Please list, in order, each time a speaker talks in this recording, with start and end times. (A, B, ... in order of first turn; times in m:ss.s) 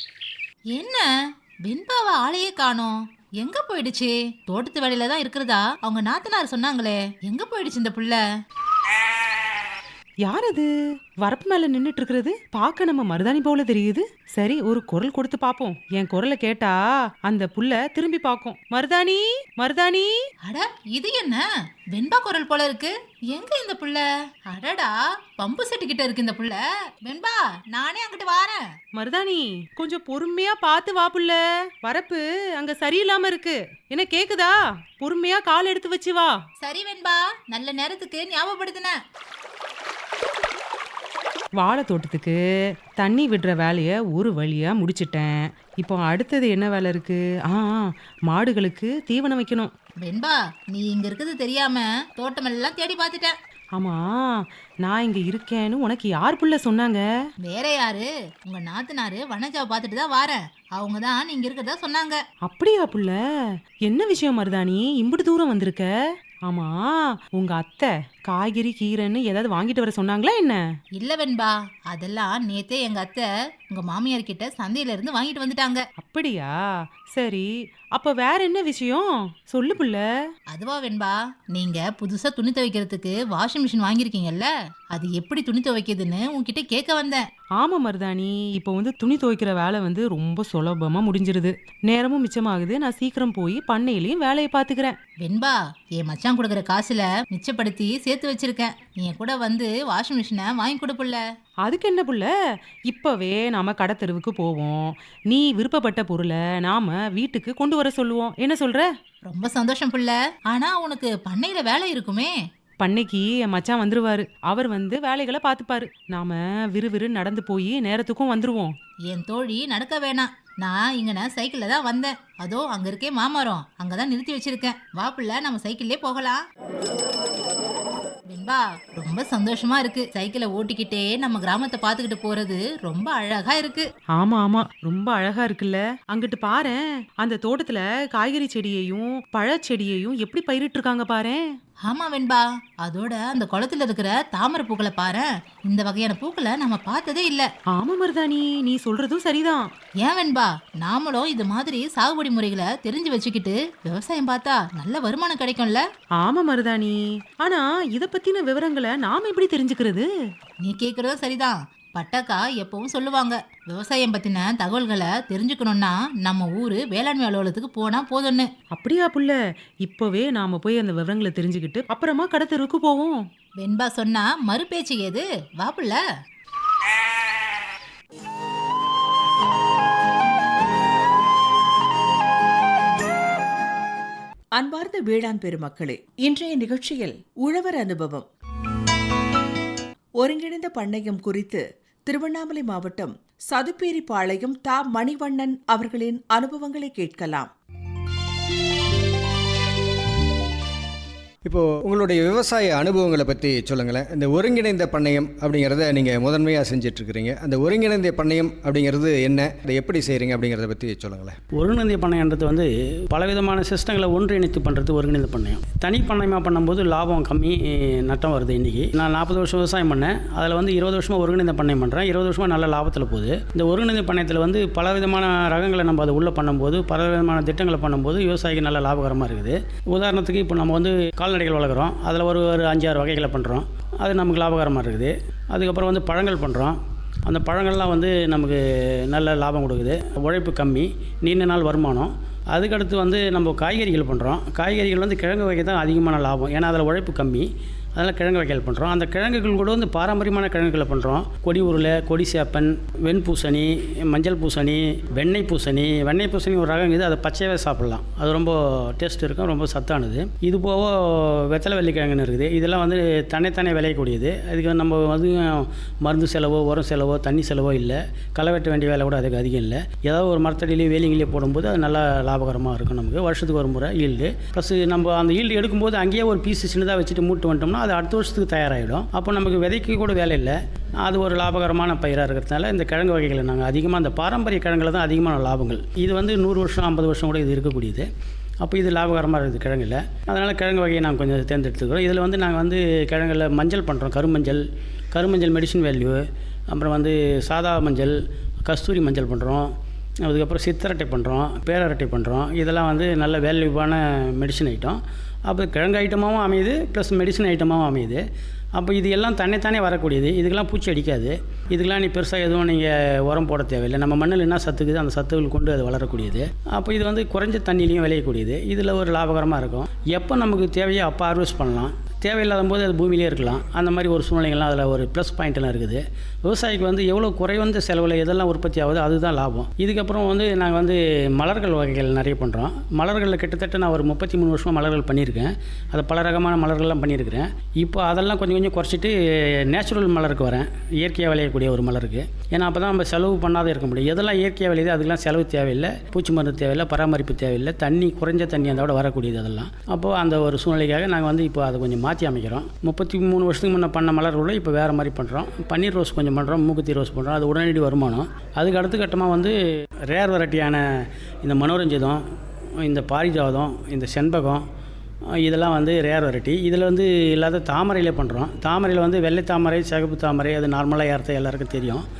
0:00.7-0:01.1 A
0:01.6-0:08.2 A
0:10.2-0:10.7 B
0:11.2-0:20.1 B
0:20.5-0:28.6 A
0:29.0-0:36.4 B
0:36.6-0:39.0 A
0:41.6-0:42.4 B
0:43.0-0:49.7 B
0:50.0-0:53.4 A
0:53.8-0:57.0 B
0:57.4-1:02.2 A
1:02.4-1:03.2 B
1:03.9-1:05.9 B
1:06.5-1:10.6 B
1:11.0-1:15.8 A
1:16.0-1:16.5 B
1:17.1-1:20.0 B
1:20.5-1:27.2 A
1:27.6-1:35.0 B
1:35.2-1:41.2 A
1:41.6-1:42.3 B
1:42.9-1:48.9 B
1:49.3-1:52.4 A
1:52.8-1:58.8 B
1:59.1-2:06.4 A
2:08.3-2:13.8 A
2:14.2-2:21.4 B
2:21.8-2:27.5 A
2:27.7-2:29.7 B
2:30.0-2:35.8 A
2:36.2-2:40.1 B
2:40.6-2:48.5 A
2:48.7-2:53.3 B
2:53.6-2:56.0 A
3:04.6-3:08.3 C
3:10.2-3:17.5 C
3:21.4-3:31.4 D
3:31.6-4:48.1 E
4:48.6-4:59.7 E
5:00.2-5:08.2 E
5:08.8-6:02.2 E
6:02.8-6:04.6 E
6:05.4-6:12.0 E